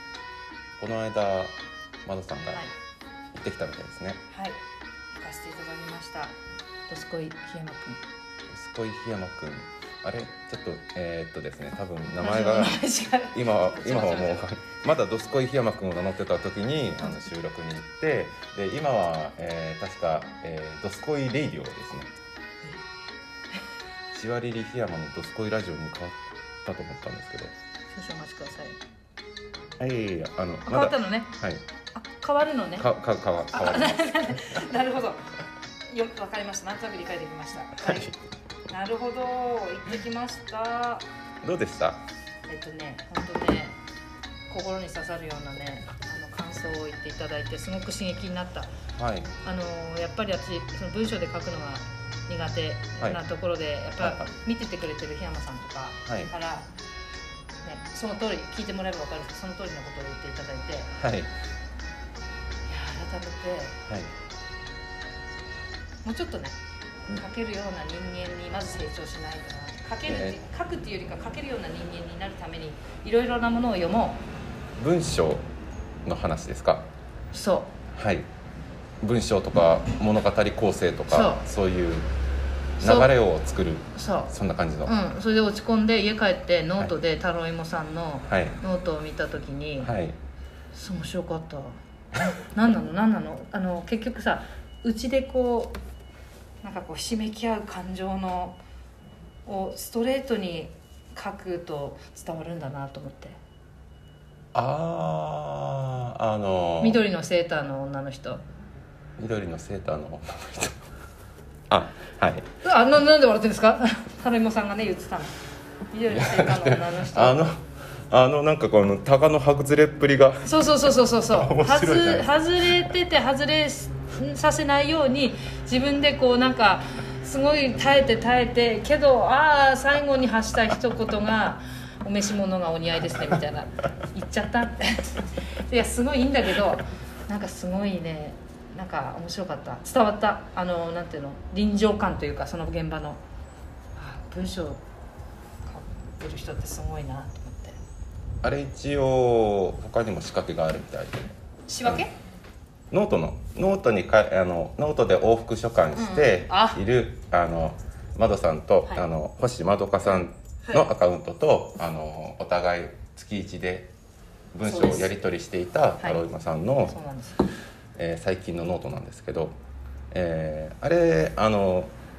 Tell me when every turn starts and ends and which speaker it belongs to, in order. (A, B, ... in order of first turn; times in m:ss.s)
0:00.8-0:02.6 A
0:02.4-0:02.7 B
0:03.3-0:04.2 A
0:04.3-0:04.6 B
0:05.1-0:06.3 B
0:06.9-0:08.0 B
0:08.5-0:12.8 A
0:12.2-0:14.5 B
0:13.3-0:22.1 A
0:24.1-0:27.5 A
0:27.9-0:28.8 B
0:29.8-0:31.6 A
0:30.6-0:31.3 B
0:31.9-0:32.9 B
0:32.8-0:34.6 A
0:33.5-0:35.3 B
0:35.9-0:38.1 B
0:37.8-0:38.2 A
0:38.7-0:41.1 B
0:41.4-0:42.0 A
0:42.5-0:43.8 B
0:44.5-0:48.7 B
0:49.0-0:49.3 A
0:49.4-0:56.7 B
0:54.0-0:54.3 A
0:57.6-1:00.9 B
1:01.0-1:01.3 A
1:02.7-1:03.8 B
1:03.9-1:04.1 A
1:06.0-1:06.6 B
1:07.1-1:14.2 B
1:10.0-1:10.4 A
1:14.8-1:15.5 A
1:16.0-1:16.9 A
1:17.3-1:17.7 B
1:17.9-1:18.3 A
1:19.0-1:22.1 A
1:21.1-1:21.4 B
1:22.8-1:23.1 B
1:22.8-1:24.9 A
1:23.9-1:24.3 B
1:24.8-1:29.9 B
1:28.3-1:28.6 A
1:29.8-1:30.2 A
1:30.7-1:31.8 B
1:32.3-1:35.8 B
1:36.6-1:38.6 B
1:39.4-1:43.4 B
1:44.5-1:47.0 A
1:46.8-1:48.4 B
1:49.2-1:50.8 A
1:51.7-1:52.4 A
1:52.6-1:55.3 B
1:55.9-1:57.5 B
1:56.1-2:00.7 A
2:00.4-2:23.2 B
2:01.2-2:02.7 A
2:24.0-2:24.8 B
2:25.6-2:27.8 B
2:28.4-2:32.0 A
2:31.7-2:32.1 B
2:32.9-2:43.9 A
2:36.0-2:36.8 B
2:40.6-2:40.9 B
2:44.5-2:46.9 A
2:44.6-2:45.1 B
2:46.0-2:46.2 B
2:46.8-2:47.4 B
2:48.0-2:49.6 A
2:50.1-2:51.9 A